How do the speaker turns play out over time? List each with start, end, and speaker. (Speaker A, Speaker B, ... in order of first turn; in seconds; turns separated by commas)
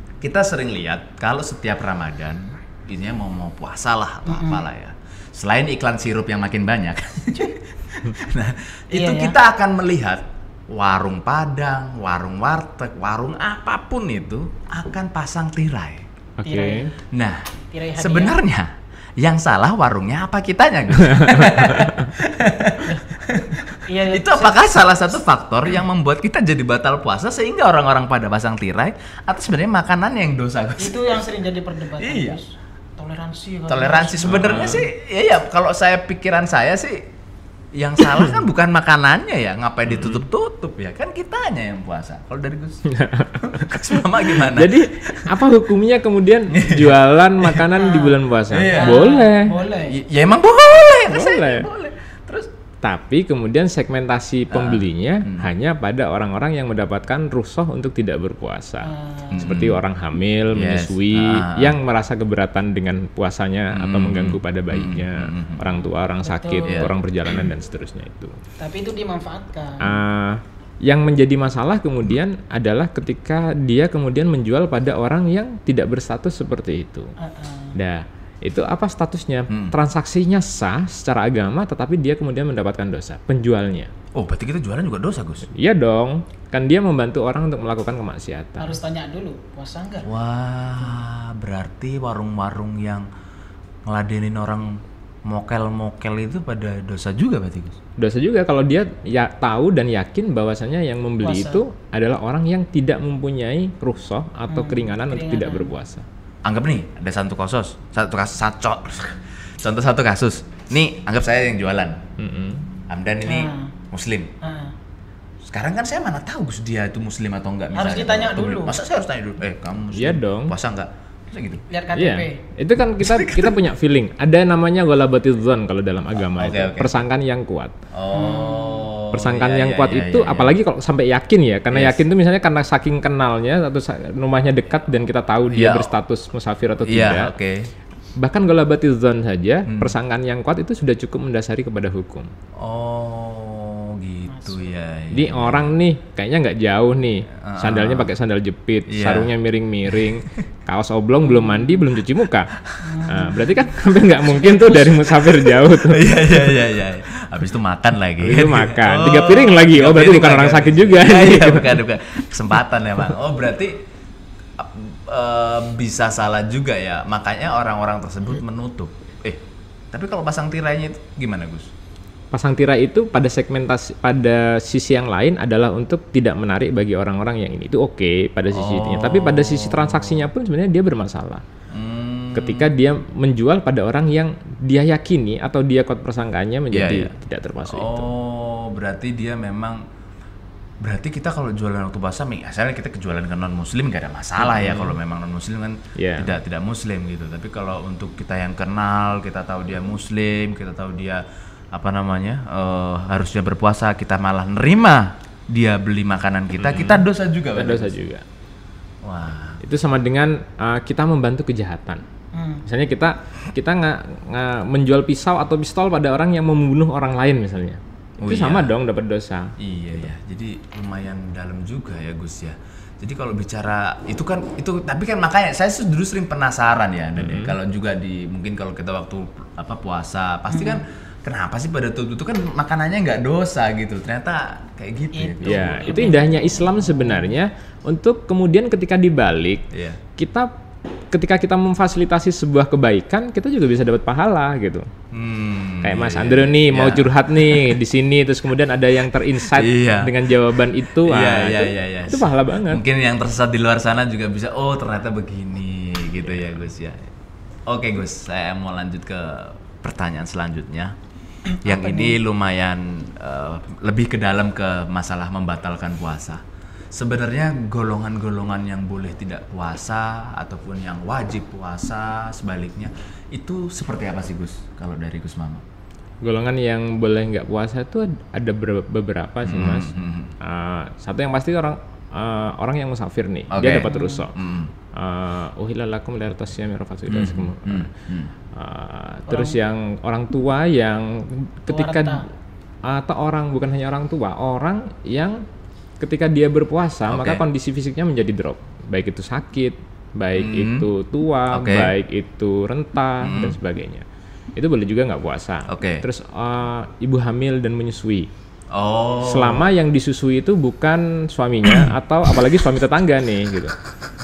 Speaker A: 0.2-16.0, Speaker B: 4.3-4.6, Speaker B: 8.9-9.3, Speaker C: 16.4-16.9, Speaker B: 16.4-16.9, Speaker A: 17.1-31.2, Speaker B: 17.7-18.4, Speaker C: 21.1-22.0, Speaker B: 23.9-24.7, Speaker B: 30.8-34.7, Speaker A: 32.0-32.4, Speaker A: 33.7-37.0, Speaker C: 34.2-34.9, Speaker A: 37.7-42.8, Speaker C: 42.9-49.6, Speaker A: 43.4-45.3, Speaker A: 46.5-47.6, Speaker B: 47.7-50.0, Speaker A: 48.5-49.1, Speaker A: 49.8-52.5, Speaker C: 51.1-51.7, Speaker C: 52.8-58.9, Speaker A: 54.5-55.5, Speaker B: 58.8-59.5, Speaker A: 59.3-59.8, Speaker C: 59.4-68.3, Speaker A: 60.5-61.8, Speaker A: 63.7-65.7, Speaker B: 66.2-66.9, Speaker A: 66.7-67.5, Speaker B: 68.6-69.8, Speaker C: 69.8-77.1, Speaker B: 77.2-77.8, Speaker C: 77.7-83.9, Speaker A: 79.5-79.8, Speaker A: 84.1-85.5, Speaker C: 85.5-88.8, Speaker B: 88.6-90.1, Speaker A: 90.0-93.1, Speaker A: 93.8-97.8, Speaker C: 98.0-106.0, Speaker B: 101.2-101.6, Speaker B: 104.5-105.7, Speaker A: 106.4-112.0, Speaker C: 112.2-112.7, Speaker A: 112.9-114.3, Speaker B: 113.2-113.7, Speaker B: 114.4-114.7, Speaker A: 115.4-121.6, Speaker B: 117.7-118.8, Speaker C: 119.9-120.5, Speaker B: 121.7-122.3, Speaker C: 121.9-127.7, Speaker A: 123.0-123.6, Speaker A: 126.3-127.0, Speaker A: 127.9-130.6, Speaker B: 128.1-128.9, Speaker C: 129.1-137.3, Speaker A: 131.7-132.0, Speaker A: 135.5-135.9, Speaker A: 136.8-137.7, Speaker C: 138.2-142.3, Speaker A: 139.7-139.9, Speaker A: 142.6-145.7, Speaker B: 144.3-144.6, Speaker C: 145.1-152.5, Speaker A: 147.4-148.1, Speaker A: 148.9-149.3, Speaker B: 151.2-151.8, Speaker B: 152.8-153.7, Speaker C: 153.1-156.5, Speaker A: 154.5-163.8, Speaker B: 154.5-154.8, Speaker C: 158.2-161.8, Speaker A: 164.6-171.7, Speaker C: 172.3-181.4, Speaker A: 178.5-180.3, Speaker A: 181.7-182.7, Speaker C: 182.3-188.1, Speaker A: 186.7-187.1, Speaker A: 187.7-189.8, Speaker A: 190.8-207.9, Speaker C: 194.4-194.9, Speaker C: 195.9-196.4, Speaker C: 206.6-208.2, Speaker A: 209.0-209.6, Speaker C: 209.6-212.0, Speaker B: 212.3-212.6, Speaker C: 212.7-219.5, Speaker A: 218.2-218.7, Speaker A: 219.6-235.9, Speaker C: 227.2-227.5, Speaker B: 230.5-230.8, Speaker B: 235.1-237.3, Speaker C: 235.4-240.5, Speaker A: 239.7-240.0, Speaker C: 241.1-244.8, Speaker A: 245.1-247.7, Speaker C: 245.8-252.8, Speaker A: 249.5-250.2, Speaker A: 250.8-257.0, Speaker C: 256.2-256.7, Speaker A: 257.7-260.9, Speaker B: 261.5-262.2, Speaker A: 261.6-266.4, Speaker A: 266.9-275.6, Speaker C: 276.2-284.3, Speaker A: 279.4-280.3, Speaker A: 283.5-284.7, Speaker B: 283.8-284.2, Speaker C: 284.9-287.9, Speaker A: 287.1-288.3, Speaker C: 288.5-292.2, Speaker B: 289.3-289.6, Speaker B: 291.7-292.2, Speaker C: 292.9-295.4, Speaker C: 296.0-304.0, Speaker A: 297.1-297.4, Speaker A: 300.4-300.9, Speaker A: 301.5-301.9, Speaker A: 303.2-303.6, Speaker C: 304.6-308.3, Speaker A: 305.7-306.1, Speaker A: 308.7-309.7, Speaker C: 309.2-313.7